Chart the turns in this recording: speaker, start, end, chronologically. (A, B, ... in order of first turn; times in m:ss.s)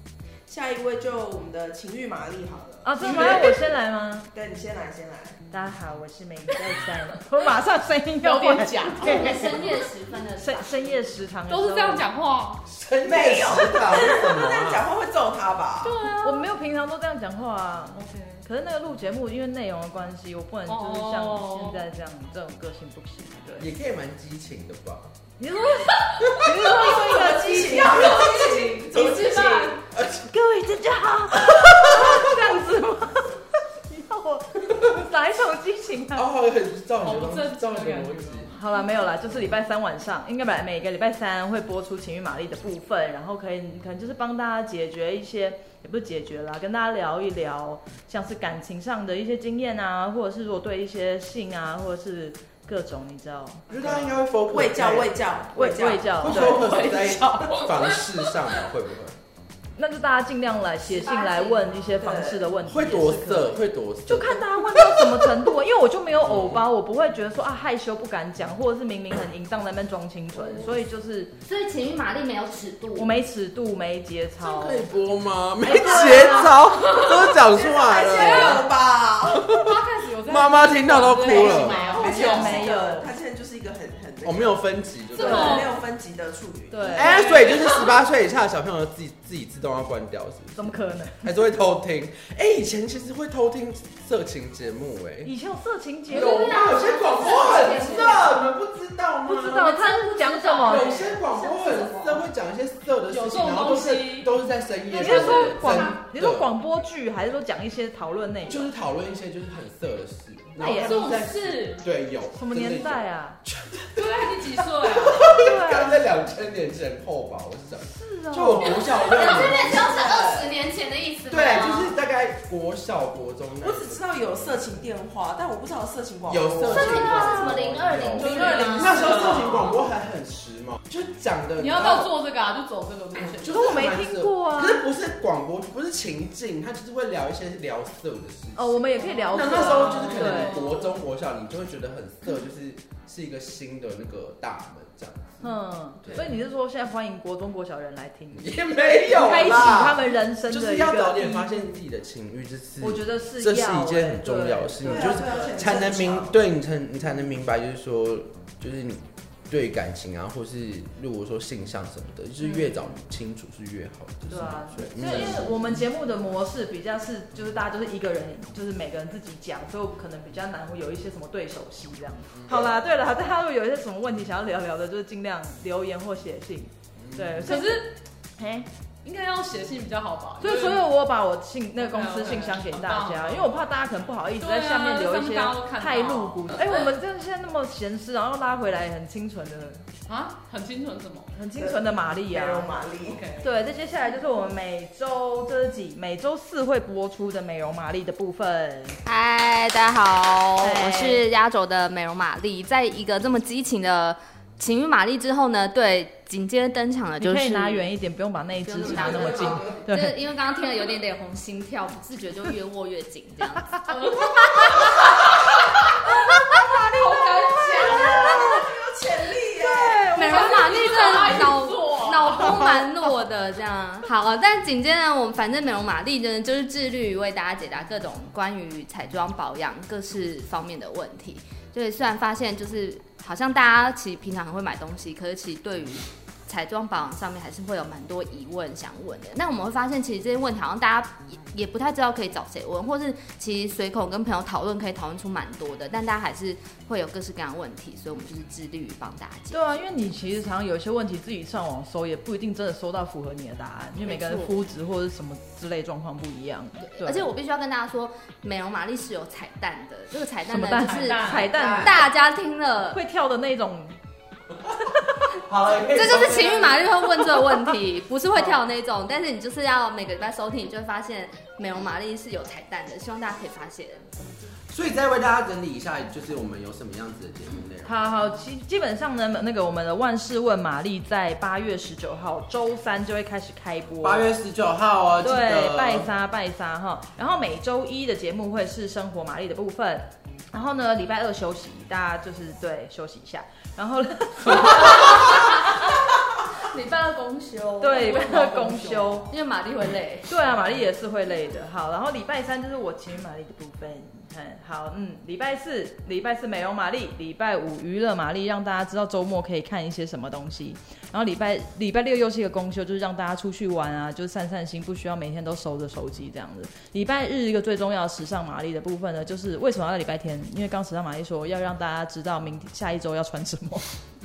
0:00.5-0:03.6 A
0:02.8-0:04.3 B
0:04.3-0:05.4 A
0:05.5-0:09.7 B
0:08.2-0:09.6 C
0:09.0-0:11.0 D
0:10.4-0:12.1 B
0:11.5-0:12.6 C
0:12.7-0:14.8 E
0:13.0-0:16.0 A
0:15.8-0:16.5 C
0:16.2-0:23.7 B
0:18.0-0:18.4 C
0:20.7-0:21.9 C
0:23.6-0:25.1 E
0:25.4-0:27.9 B
0:26.6-0:29.8 A
0:26.8-0:29.8 C
0:29.9-0:30.3 E
0:30.2-0:36.3 B
0:36.1-0:38.5 E
0:37.0-0:39.1 C
0:38.5-0:54.1 B
0:53.7-0:55.2 E
0:54.4-0:57.2 A
0:55.5-0:56.7 B
0:56.2-0:59.2 E
0:56.8-0:58.4 C
0:59.8-1:11.4 B
1:00.8-1:01.9 D
1:01.9-1:02.5 A
1:02.6-1:05.0 E
1:06.2-1:06.7 E
1:11.4-1:13.1 D
1:13.0-1:14.9 B
1:14.4-1:18.7 E
1:15.6-1:16.6 B
1:17.4-1:19.4 A
1:18.2-1:18.6 C
1:19.2-1:19.7 E
1:19.4-1:22.8 C
1:20.2-1:21.8 E
1:21.2-1:27.3 A
1:21.8-1:23.1 B
1:24.2-1:25.7 E
1:25.2-1:25.7 C
1:25.3-1:25.6 B
1:26.7-1:27.3 B
1:26.9-1:35.3 E
1:27.0-1:27.7 C
1:30.6-1:31.3 B
1:35.2-1:36.6 B
1:36.1-1:39.7 E
1:36.1-1:38.4 D
1:39.2-1:41.0 B
1:39.6-1:42.2 D
1:40.6-1:46.5 E
1:43.1-1:44.3 C
1:44.9-1:46.0 C
1:44.9-1:48.7 B
1:48.5-2:00.6 E
1:50.6-1:51.8 C
1:50.6-1:51.0 B
1:52.3-1:53.4 B
1:54.0-1:55.2 C
1:55.2-1:56.0 B
1:57.8-1:59.2 B
1:58.7-2:01.9 D
1:59.8-2:00.2 A
2:01.3-2:04.0 E
2:03.6-2:07.2 A
2:06.3-2:12.1 E
2:06.6-2:09.5 D
2:07.1-2:07.6 B
2:08.2-2:09.4 A
2:08.4-2:09.5 C
2:11.6-2:13.5 C
2:13.3-2:25.5 E
2:13.5-2:14.9 B
2:18.6-2:20.7 B
2:19.0-2:20.8 C
2:25.4-2:28.5 B
2:26.0-2:26.3 E
2:28.3-2:45.8 E
2:29.1-2:31.7 B
2:32.8-2:35.4 B
2:34.8-2:36.4 A
2:44.3-2:58.7 B
2:52.3-2:52.7 E
2:57.0-2:57.5 E
2:57.5-2:58.0 C
2:59.0-3:00.9 C
3:00.4-3:09.9 B
3:01.8-3:03.6 C
3:04.4-3:07.0 C
3:10.1-3:11.4 C
3:11.3-3:12.8 B
3:11.6-3:13.2 A
3:13.1-3:13.5 C
3:13.4-3:19.0 B
3:19.0-3:27.9 D
3:20.6-3:21.2 B
3:27.2-3:30.2 B
3:28.6-3:33.9 D
3:28.9-3:29.4 E
3:33.9-3:35.5 C
3:34.6-3:35.1 D
3:36.5-3:37.3 B
3:36.7-3:38.5 D
3:36.8-3:38.3 C
3:37.7-3:40.2 A
3:38.1-3:38.6 B
3:39.6-3:40.5 B
3:40.1-4:09.8 D
3:40.2-3:42.8 C
3:42.5-3:42.8 B
4:09.5-4:17.3 B
4:14.0-4:14.6 D
4:16.8-4:23.0 D
4:20.5-4:22.0 B
4:20.7-4:21.9 C
4:22.9-4:24.0 B
4:25.4-4:27.2 E
4:25.9-4:34.2 D
4:34.7-4:38.0 E
4:37.8-4:44.3 B
4:44.0-4:46.1 E
4:45.2-4:55.4 B
4:54.7-4:55.7 D
4:56.6-4:58.3 D
4:57.8-4:59.3 B
4:58.0-4:59.2 C
4:59.3-5:00.4 D
5:00.3-5:23.9 B